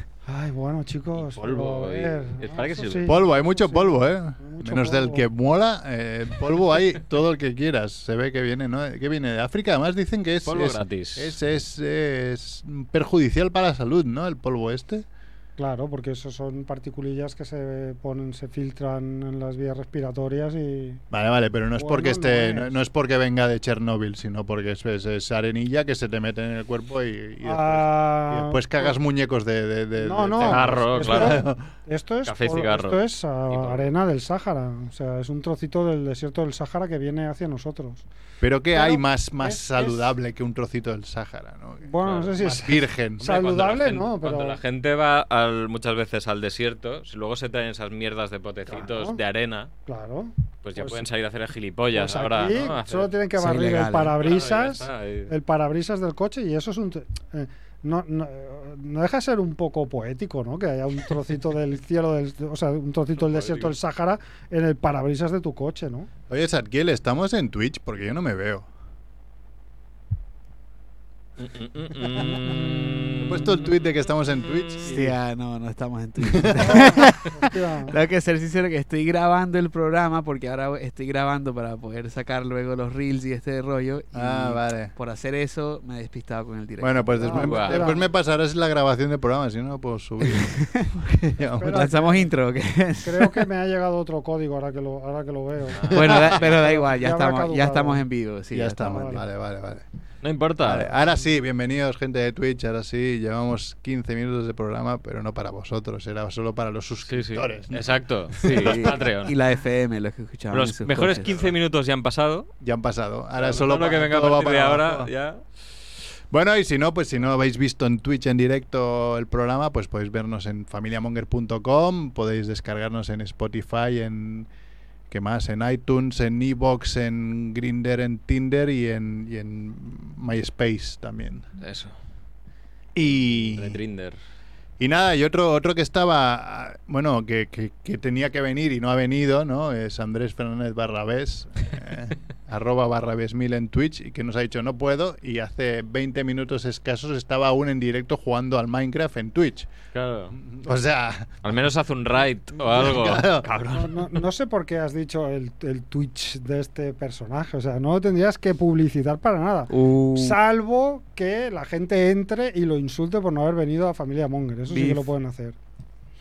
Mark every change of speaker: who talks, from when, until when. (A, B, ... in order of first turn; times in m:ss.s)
0:00.3-0:05.3 A
0:01.2-0:03.2 B
0:03.1-0:15.1 C
0:10.4-0:11.4 B
0:15.6-0:21.0 A
0:21.1-0:31.7 C
0:21.8-0:22.8 A
0:27.4-0:29.0 A
0:30.0-0:38.0 A
0:30.4-0:31.5 B
0:32.2-0:33.9 B
0:38.4-0:43.3 C
0:38.7-0:40.1 A
0:41.8-0:44.6 A
0:42.0-0:42.5 B
0:43.2-0:49.7 B
0:48.7-0:49.2 A
0:49.9-0:51.0 A
0:50.6-0:53.1 B
0:51.9-1:06.1 A
0:53.4-0:54.2 D
0:54.2-0:55.3 B
1:03.2-1:03.7 B
1:06.3-1:08.7 C
1:11.4-1:13.7 B
1:12.2-1:12.6 A
1:13.2-1:15.1 C
1:14.8-1:27.4 D
1:16.2-1:17.0 C
1:16.6-1:18.0 A
1:24.1-1:24.9 C
1:26.8-1:31.9 C
1:27.2-1:28.0 A
1:27.4-1:28.0 B
1:30.2-1:30.9 D
1:31.6-1:32.3 A
1:31.6-1:33.5 D
1:33.0-1:38.0 A
1:35.7-1:36.5 B
1:35.9-1:39.2 D
1:38.5-1:39.8 C
1:38.9-1:39.2 A
1:40.2-1:40.9 B
1:40.6-1:48.9 C
1:47.1-1:49.4 B
1:48.4-1:51.3 D
1:50.5-1:52.5 B
1:51.2-1:51.5 C
1:52.6-1:55.1 C
1:53.4-1:55.4 B
1:56.3-2:04.5 C
2:05.1-2:11.5 C
2:11.6-2:11.9 B
2:13.0-2:13.8 C
2:13.6-2:14.2 B
2:14.8-2:29.7 C
2:29.9-2:30.4 B
2:30.4-2:31.4 C
2:31.4-2:33.9 B
2:32.6-2:33.8 C
2:33.7-2:45.6 A
2:39.7-2:40.4 D
2:44.7-2:45.1 D